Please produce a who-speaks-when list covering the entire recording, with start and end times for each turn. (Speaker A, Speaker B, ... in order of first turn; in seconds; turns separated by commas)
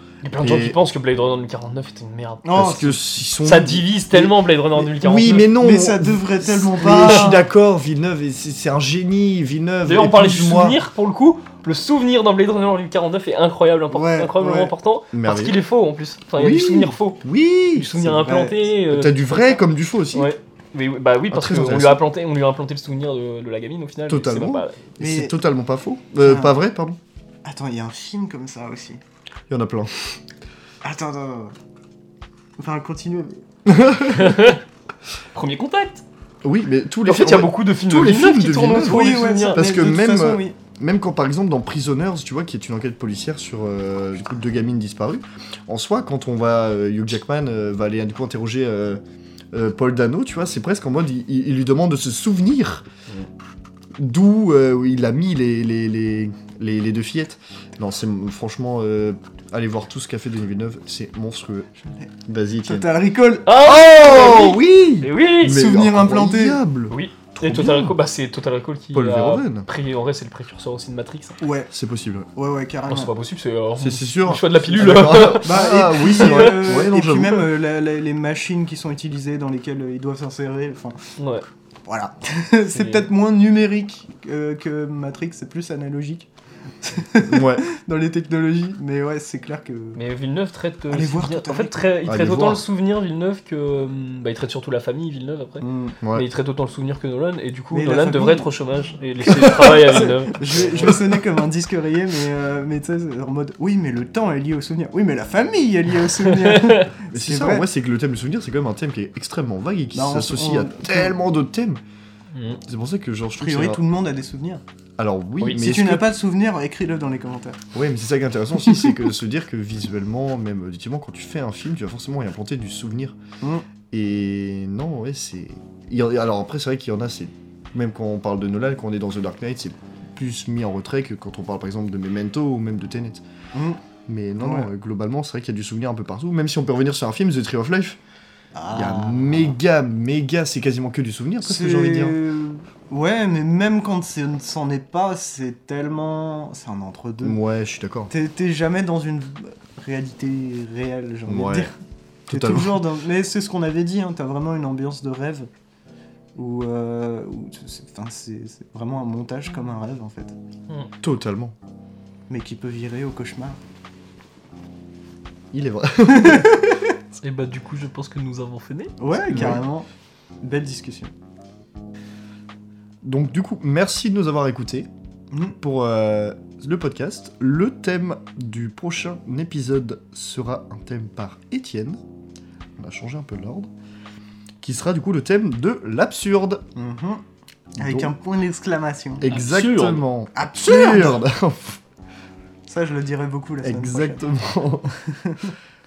Speaker A: 0.2-2.5, Speaker B: 0.4-0.8, Speaker C: 2.4-3.0, Speaker B: 2.5-10.8, Speaker A: 3.4-5.6, Speaker C: 5.5-7.5, Speaker A: 7.0-7.3, Speaker A: 9.9-17.2, Speaker C: 13.9-14.7, Speaker B: 15.1-15.6, Speaker B: 16.4-20.3, Speaker A: 17.8-24.9, Speaker C: 18.1-18.6, Speaker B: 21.3-22.0, Speaker B: 24.1-27.0, Speaker C: 25.0-25.4, Speaker C: 26.2-26.6, Speaker C: 27.4-29.0, Speaker B: 29.5-30.2, Speaker C: 30.8-31.6, Speaker C: 32.6-33.4, Speaker B: 33.7-34.6, Speaker A: 34.0-34.6, Speaker A: 35.3-36.0, Speaker B: 36.4-49.0, Speaker A: 37.0-39.7, Speaker C: 38.8-40.6, Speaker B: 49.5-52.9, Speaker B: 54.0-61.7, Speaker C: 61.8-62.1, Speaker B: 62.3-62.9, Speaker C: 62.6-63.5, Speaker A: 63.5-65.7, Speaker B: 63.6-67.9, Speaker C: 65.4-66.6, Speaker A: 66.9-71.4, Speaker B: 68.9-69.7, Speaker C: 71.4-71.7, Speaker B: 71.7-72.3, Speaker C: 72.3-73.1, Speaker A: 72.9-76.8, Speaker B: 73.8-77.5, Speaker C: 74.8-81.0, Speaker A: 81.2-81.5, Speaker C: 81.9-86.3, Speaker A: 82.7-83.1, Speaker C: 86.8-90.0, Speaker B: 87.3-87.7, Speaker A: 90.0-101.0, Speaker C: 90.9-91.9, Speaker B: 92.0-92.7, Speaker C: 95.6-96.0, Speaker B: 96.0-96.3, Speaker C: 97.7-98.5, Speaker C: 99.2-107.7, Speaker B: 100.8-101.1, Speaker A: 106.2-106.9, Speaker B: 107.1-111.8, Speaker C: 109.9-111.2, Speaker A: 112.3-112.6, Speaker B: 112.6-113.8, Speaker C: 113.4-114.6, Speaker B: 115.0-116.1, Speaker C: 115.6-117.6, Speaker B: 117.7-123.2, Speaker B: 123.9-133.2, Speaker C: 133.5-133.8, Speaker B: 134.1-138.0, Speaker C: 134.4-134.7, Speaker C: 138.6-139.6, Speaker B: 138.7-142.2, Speaker C: 141.4-147.4, Speaker B: 147.2-148.1, Speaker C: 148.1-151.8, Speaker B: 151.3-151.7, Speaker B: 152.3-152.8, Speaker C: 152.3-155.5, Speaker C: 156.4-160.3, Speaker B: 161.0-161.6, Speaker C: 162.3-163.6, Speaker B: 165.5-166.7, Speaker C: 166.1-166.7, Speaker A: 167.2-169.6, Speaker C: 169.0-169.9, Speaker B: 169.3-169.6, Speaker C: 170.4-171.1, Speaker B: 173.0-174.9, Speaker C: 175.3-175.6, Speaker B: 175.6-182.0, Speaker B: 182.8-183.7, Speaker B: 184.6-186.7, Speaker C: 186.8-187.2, Speaker B: 187.8-188.1, Speaker C: 187.8-189.2, Speaker B: 189.2-191.8, Speaker A: 189.3-190.0, Speaker C: 190.3-191.3, Speaker C: 192.7-194.2, Speaker B: 193.6-195.0, Speaker C: 195.1-195.6